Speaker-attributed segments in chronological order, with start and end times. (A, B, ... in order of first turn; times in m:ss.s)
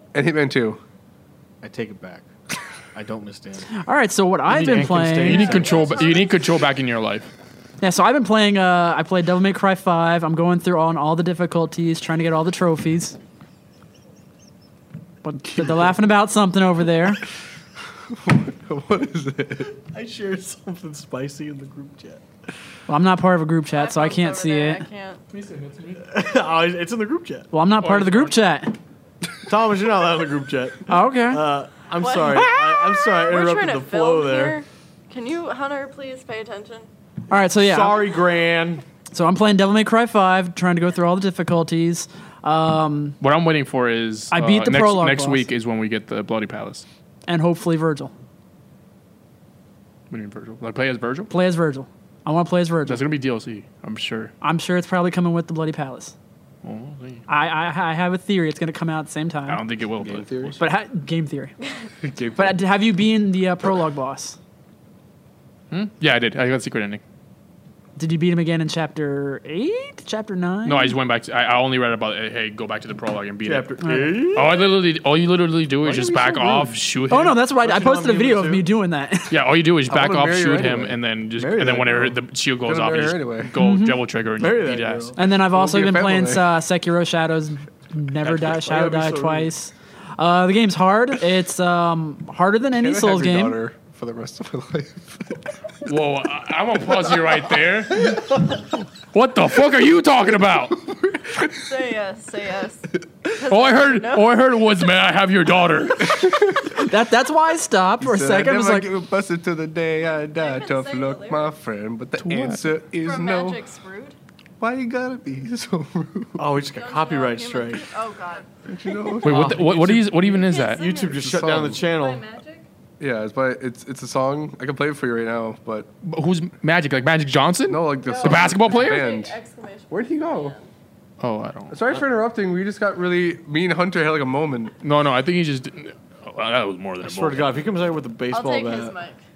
0:00.1-0:00.8 A
0:01.6-0:02.3 B
0:02.9-0:03.7 B
0:03.7-0:05.5 C
0:04.5-0:06.1 B
0:05.2-0:07.3 D
0:05.5-0:06.3 E
0:07.8-0:13.2 C
0:15.2-0:17.2 C
0:18.1-0:19.7 A
0:19.9-0:22.2 B
0:22.9-0:24.9 C
0:23.7-0:25.2 E
0:25.3-0:26.0 D
0:26.0-0:27.5 B
0:27.5-0:28.8 C
0:27.8-0:28.4 D
0:29.4-0:34.6 B
0:30.9-0:31.4 C
0:32.0-0:36.9 E
0:37.3-0:38.0 C
0:37.6-0:38.8 B
0:39.1-0:43.2 C
0:43.2-0:46.8 D
0:44.3-0:45.5 C
0:47.3-0:48.1 C
0:50.1-0:51.3 D
0:51.3-0:53.0 C
0:52.9-0:54.3 D
0:54.4-0:56.2 C
0:56.6-0:57.2 D
0:57.3-0:59.6 C
0:59.5-1:00.6 D
1:00.0-1:00.6 A
1:00.6-1:01.6 C
1:02.0-1:02.6 A
1:02.4-1:04.4 C
1:05.7-1:07.0 D
1:08.0-1:11.0 C
1:10.6-1:13.7 D
1:13.4-1:14.8 B
1:13.8-1:14.3 C
1:14.3-1:17.4 D
1:15.8-1:16.8 A
1:17.1-1:19.4 C
1:17.5-1:18.7 B
1:19.3-1:25.2 D
1:19.9-1:21.0 A
1:21.4-1:22.2 B
1:22.6-1:23.5 A
1:23.6-1:24.0 C
1:24.4-1:25.2 B
1:25.2-1:33.6 C
1:25.5-1:26.6 A
1:28.5-1:29.5 B
1:32.8-1:35.4 A
1:35.8-1:38.5 D
1:39.1-1:40.9 D
1:41.5-1:44.4 E
1:43.5-1:46.5 D
1:46.8-1:48.9 C
1:48.0-1:53.6 A
1:50.4-1:51.5 E
1:52.2-1:52.6 D
1:53.0-1:54.2 E
1:54.6-1:56.4 A
1:56.4-1:57.8 B
1:56.8-1:58.5 E
1:58.6-1:59.9 A
1:59.2-2:02.2 B
1:59.2-2:00.8 D
2:00.3-2:02.7 E
2:01.2-2:01.8 A
2:03.0-2:05.9 A
2:06.0-2:09.1 D
2:07.7-2:09.4 A
2:08.0-2:10.7 E
2:09.9-2:10.6 A
2:11.2-2:11.8 D
2:11.7-2:14.7 A
2:14.8-2:17.6 D
2:17.0-2:19.0 B
2:18.3-2:19.2 E